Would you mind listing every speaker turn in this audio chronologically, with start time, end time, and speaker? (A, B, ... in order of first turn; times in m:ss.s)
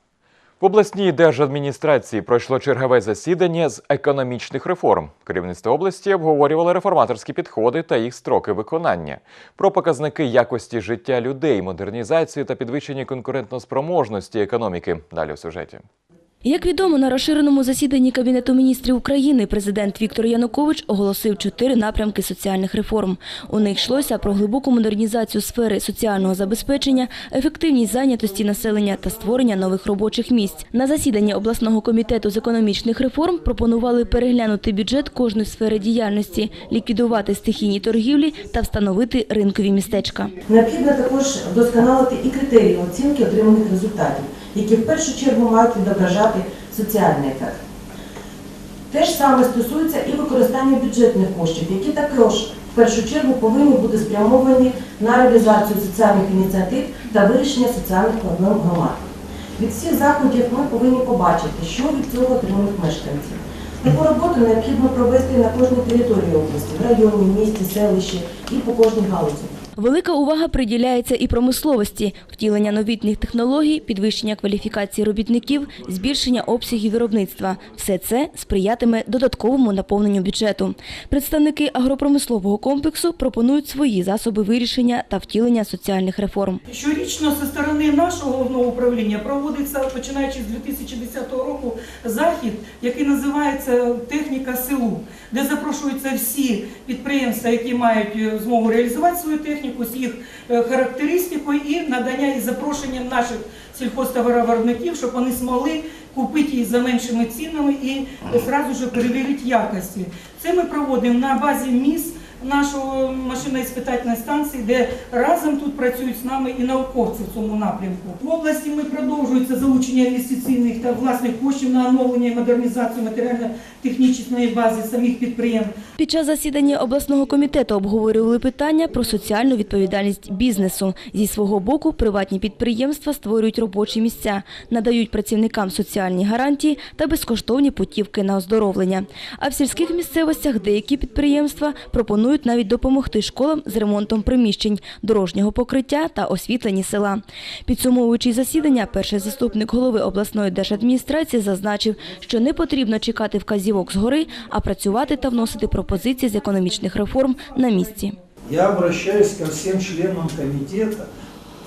0:00.6-0:15.8 A
0:16.4-0:40.3 B
0:40.5-0:47.6 C
0:48.9-0:59.0 C
0:59.6-1:09.5 C
1:09.8-1:26.6 B
1:26.7-2:05.7 D
2:06.0-2:38.2 B
2:35.3-2:36.5 D
2:38.5-2:41.1 E